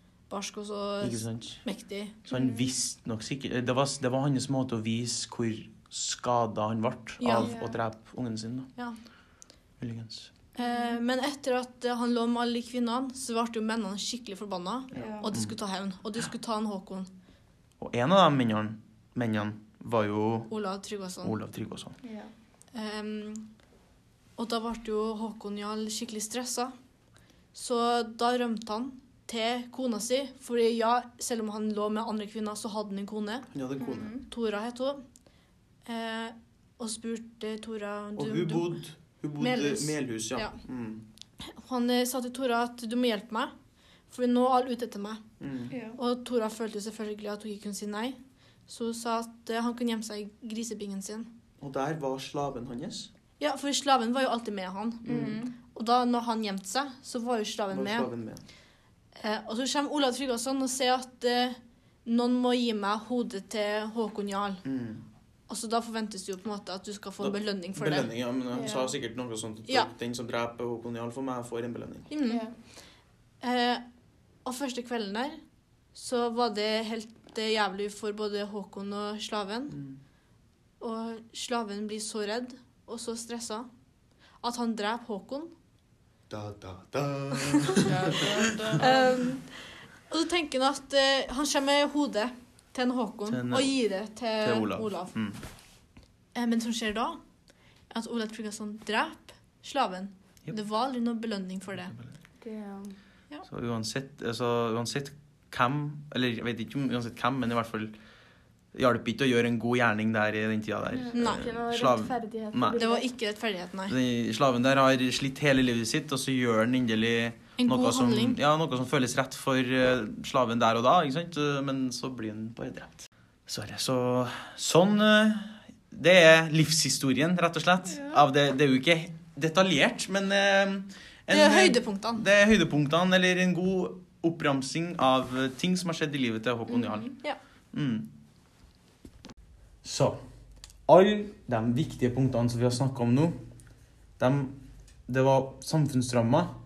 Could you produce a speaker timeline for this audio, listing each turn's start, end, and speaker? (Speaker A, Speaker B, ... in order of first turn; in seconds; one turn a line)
Speaker A: 0.3-2.2
Speaker B: 1.0-8.7
Speaker C: 2.3-2.8
Speaker A: 7.2-7.6
Speaker C: 7.4-7.8
Speaker A: 8.8-9.0
Speaker B: 9.8-10.3
Speaker A: 10.6-17.1
Speaker C: 10.6-11.0
Speaker C: 14.9-15.3
Speaker B: 17.8-20.5
Speaker A: 20.5-21.4
Speaker B: 21.2-22.0
Speaker C: 22.0-22.3
Speaker A: 22.7-23.5
Speaker A: 24.4-26.7
Speaker A: 27.5-33.5
Speaker B: 33.5-34.1
Speaker C: 33.8-34.3
Speaker A: 34.3-35.0
Speaker A: 35.9-38.8
Speaker B: 38.2-41.1
Speaker A: 39.4-40.6
Speaker A: 41.5-43.5
Speaker A: 44.1-45.2
Speaker B: 45.4-45.8
Speaker C: 45.7-46.0
Speaker A: 45.9-51.3
Speaker B: 51.6-53.1
Speaker A: 53.4-58.1
Speaker B: 55.0-55.5
Speaker C: 55.0-55.6
Speaker B: 57.7-58.4
Speaker A: 59.2-64.7
Speaker B: 64.6-65.0
Speaker A: 65.5-68.2
Speaker B: 67.2-72.1
Speaker C: 68.5-69.0
Speaker A: 69.7-69.9
Speaker A: 72.1-72.7
Speaker C: 72.3-72.6
Speaker A: 73.4-73.8
Speaker A: 74.4-75.4
Speaker A: 75.9-79.8
Speaker B: 79.7-80.0
Speaker A: 80.8-83.7
Speaker A: 84.4-85.5
Speaker B: 86.3-88.8
Speaker C: 87.8-89.2
Speaker A: 88.8-95.2
Speaker B: 93.3-93.8
Speaker B: 94.4-95.5
Speaker A: 96.3-97.2
Speaker A: 97.9-102.0
Speaker C: 102.4-103.0
Speaker B: 103.5-108.0
Speaker B: 108.7-112.8
Speaker C: 110.9-113.1
Speaker A: 111.1-111.5
Speaker A: 112.8-113.9
Speaker B: 113.9-138.1
Speaker A: 117.6-118.4
Speaker C: 127.9-128.2
Speaker A: 131.3-132.2
Speaker C: 136.7-137.1
Speaker B: 139.8-140.2
Speaker B: 140.9-143.4
Speaker B: 144.2-146.5